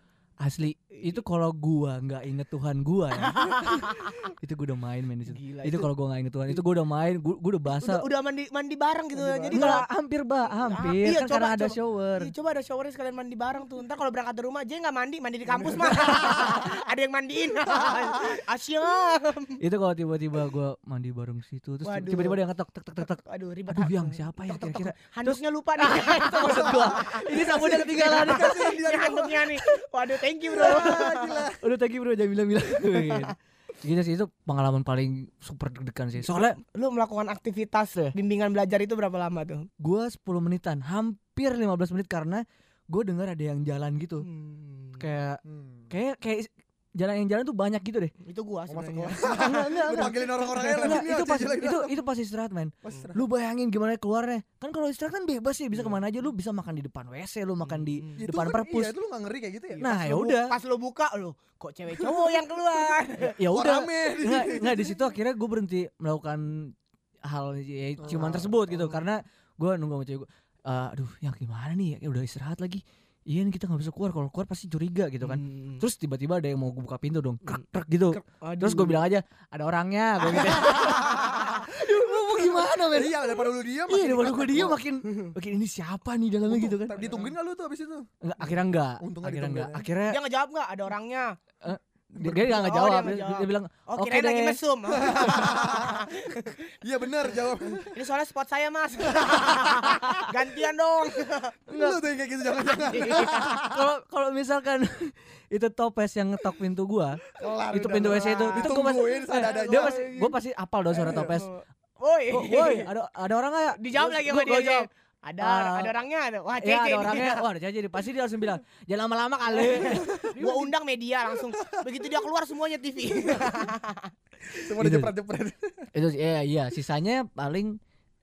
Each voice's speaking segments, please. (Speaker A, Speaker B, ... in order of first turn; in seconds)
Speaker A: 0.4-8.0, 9.5-12.3, 19.6-23.2, 23.7-28.6, 30.6-36.5, 39.8-44.2, 45.0-48.1, 49.4-58.9, 59.8-60.5, 63.4-66.7, 67.3-87.1, 88.2-90.2, 91.6-94.6, 101.7-102.0, 103.1-111.5, 112.3-114.9, 115.4-115.9, 116.6-120.7, 124.8-125.1, 125.9-127.8
Speaker B: 0.9-1.2, 3.2-4.2, 5.2-5.9, 7.7-9.9, 10.4-19.6, 21.8-22.4, 23.0-31.5, 32.8-33.3, 36.2-39.7, 44.2-45.0, 48.2-49.7, 50.5-51.0, 57.6-58.2, 59.8-63.4, 68.1-69.0, 75.2-75.8, 77.5-79.0, 80.6-81.6, 90.1-91.3, 92.3-96.6, 97.6-101.5, 102.6-103.5, 108.0-110.2, 111.0-112.9, 113.8-117.4, 119.5-124.1
Speaker C: 9.1-9.8, 15.5-16.5, 17.7-18.4, 26.4-29.6, 30.5-31.6, 45.4-45.9, 48.7-52.0, 52.8-53.2, 58.2-60.3, 62.0-65.1, 68.0-68.6, 80.4-81.5, 82.5-84.8, 86.5-89.9, 92.2-92.6, 95.0-96.1, 96.8-97.9, 99.3-100.1, 101.7-103.8, 107.4-110.3, 110.9-111.4, 119.9-120.2, 121.5-121.9, 123.3-123.6, 124.5-125.9